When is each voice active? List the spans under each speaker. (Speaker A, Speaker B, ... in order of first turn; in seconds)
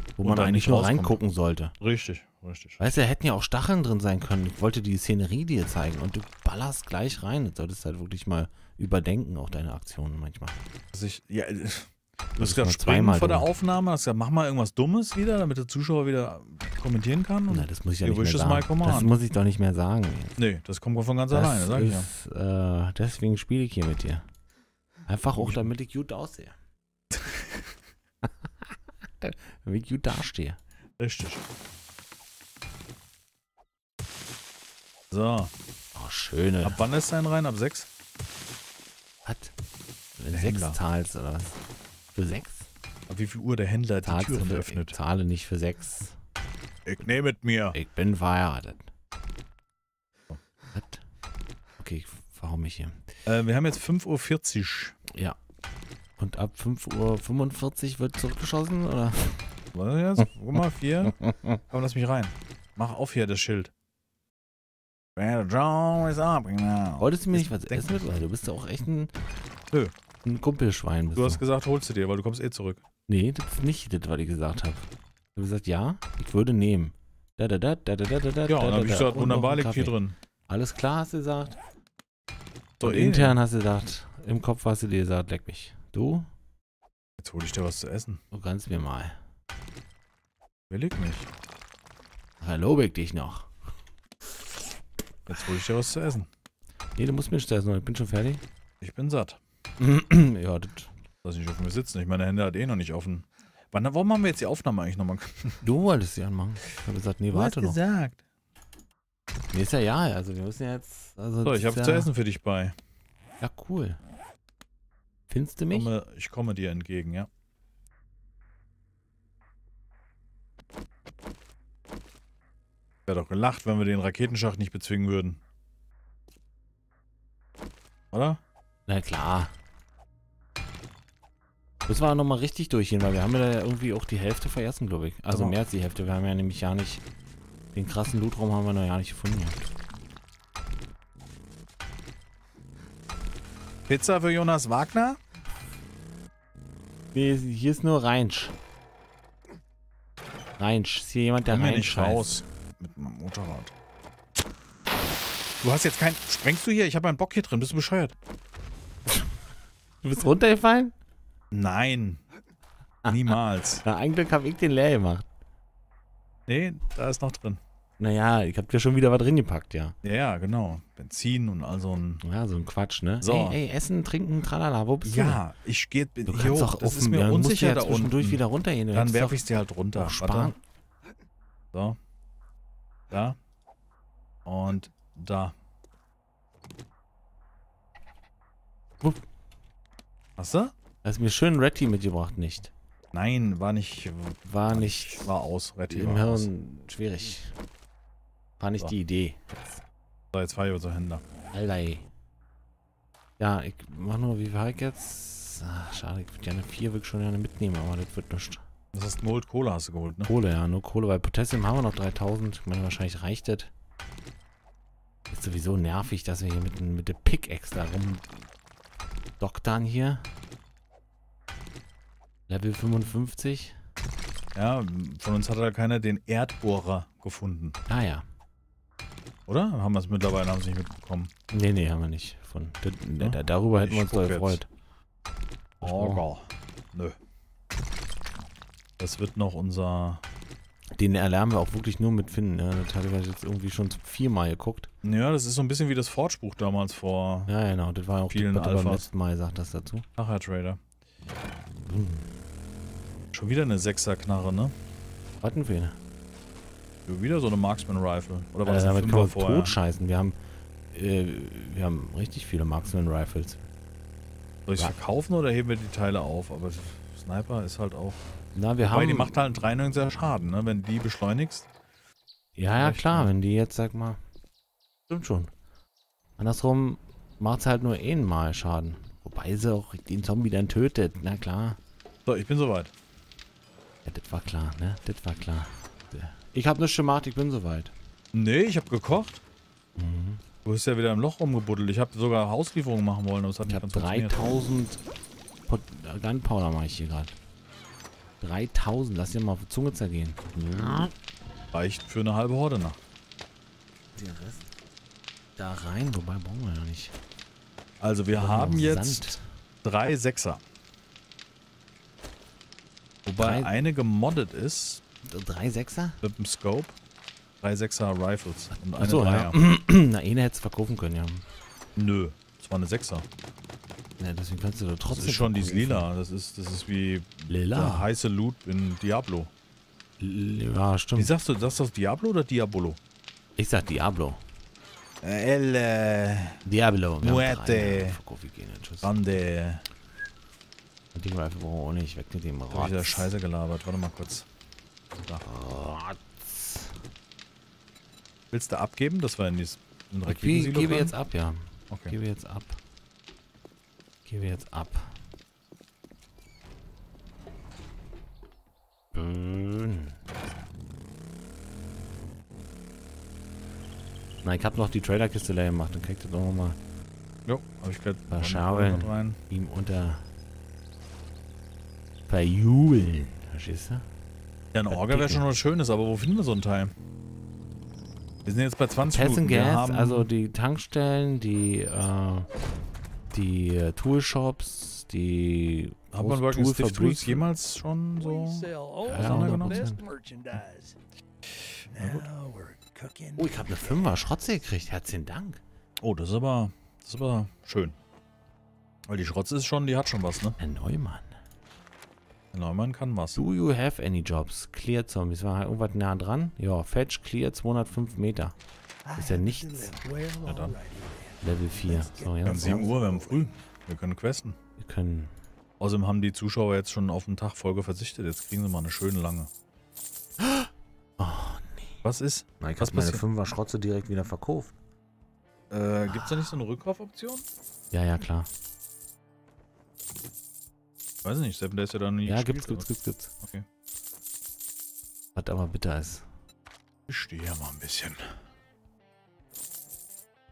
Speaker A: 0.2-1.7, 2.8-10.6, 12.4-13.5, 17.5-20.4, 21.3-24.3, 25.1-26.6, 28.2-30.6, 35.9-36.8, 39.2-39.5, 40.2-41.6, 42.1-42.7, 44.0-46.2, 47.7-48.9, 50.7-51.0, 51.8-53.0, 55.1-55.4, 56.2-59.5, 67.0-69.2, 70.2-71.4, 73.1-79.9, 80.5-81.6, 82.8-86.3, 88.3-89.2, 92.4-93.5, 97.0-98.4, 99.8-100.9, 105.6-107.8, 109.5-112.1, 113.4-114.0, 115.3-115.9, 128.9-129.5, 131.9-137.0, 137.7-139.7, 147.1-148.6, 150.6-152.4, 160.0-160.9, 163.0-165.3, 168.0-169.9, 172.2-175.4, 176.3-179.4, 179.9-180.6, 189.0-189.2, 191.0-192.7, 194.4-195.3, 195.9-197.6, 198.6-199.8, 201.5-202.1, 203.4-208.6, 210.3-213.7, 215.3-218.5, 219.4-220.3, 222.5-223.8, 227.9-228.3, 231.5-234.7, 235.8-236.2, 240.9-244.9, 247.5-250.1, 251.8-252.3, 255.4-256.0, 258.6-260.4, 260.9-263.6, 268.5-269.3, 272.6-274.2, 275.1-275.5, 276.4-281.8, 284.0-287.9, 289.9-290.4, 293.7-295.0, 295.7-297.4, 298.4-301.1, 304.1-304.7, 305.6-307.1, 308.4-309.4, 313.4-313.7, 315.2-316.2, 318.7-321.4, 324.2-326.1, 327.5-328.1, 330.2-331.3, 333.6-334.4, 336.6-339.4, 341.1-343.3, 345.4-347.0, 350.2-352.8, 354.2-355.2, 359.1-360.2, 364.4-366.8, 368.3-370.2, 372.3-374.1, 374.9-375.5, 379.1-382.5, 383.3-387.5, 389.1-390.0, 393.4-395.6, 400.6-401.3, 403.3-408.6, 409.1-409.9, 411.4-412.9, 414.8-415.3, 420.4-422.0, 422.6-424.7, 426.1-426.5, 427.9-428.5, 432.2-433.3, 435.3-436.3
Speaker B: 0.2-1.2, 1.8-2.9, 10.9-19.1, 20.4-22.1, 25.4-25.7, 27.1-27.6, 31.0-31.4, 35.1-35.5, 36.6-37.9, 40.3-40.8, 43.1-45.0, 46.9-47.8, 53.2-55.0, 59.7-63.7, 65.2-68.2, 71.1-72.8, 78.5-80.1, 82.8-83.4, 87.2-88.2, 90.7-91.3, 95.3-96.3, 98.8-99.4, 101.2-105.6, 107.3-108.2, 111.4-112.7, 115.7-117.3, 123.1-125.4, 128.1-128.4, 135.3-135.6, 143.9-145.2, 151.5-153.7, 155.6-158.2, 161.5-162.2, 163.1-163.8, 166.5-167.6, 170.0-172.2, 173.2-173.6, 175.0-180.5, 181.7-182.0, 183.1-183.4, 184.4-185.5, 190.4-190.7, 193.1-196.5, 200.3-201.2, 208.9-210.3, 224.5-227.8, 229.5-231.3, 233.2-234.6, 235.8-237.2, 239.0-240.2, 245.0-247.5, 248.3-249.1, 250.2-250.8, 253.3-254.7, 257.1-259.8, 264.7-268.2, 268.8-271.7, 272.7-273.3, 282.2-282.9, 288.3-289.4, 290.6-294.4, 301.7-303.0, 308.0-310.6, 313.2-315.0, 316.2-316.9, 317.6-319.6, 322.0-323.2, 325.1-329.5, 331.1-333.0, 335.2-336.6, 337.2-338.2, 339.0-339.8, 342.7-344.5, 348.5-351.1, 351.9-352.1, 367.5-369.4, 374.7-376.9, 378.4-380.3, 386.1-389.9, 392.0-392.2, 396.0-398.0, 399.1-400.6, 402.5-403.4, 410.4-410.8, 412.4-414.6, 415.8-419.5, 422.0-423.2, 425.7-427.4, 431.2-432.9, 433.4-433.6, 437.1-438.3
Speaker C: 388.2-390.9, 391.9-394.2, 409.0-413.4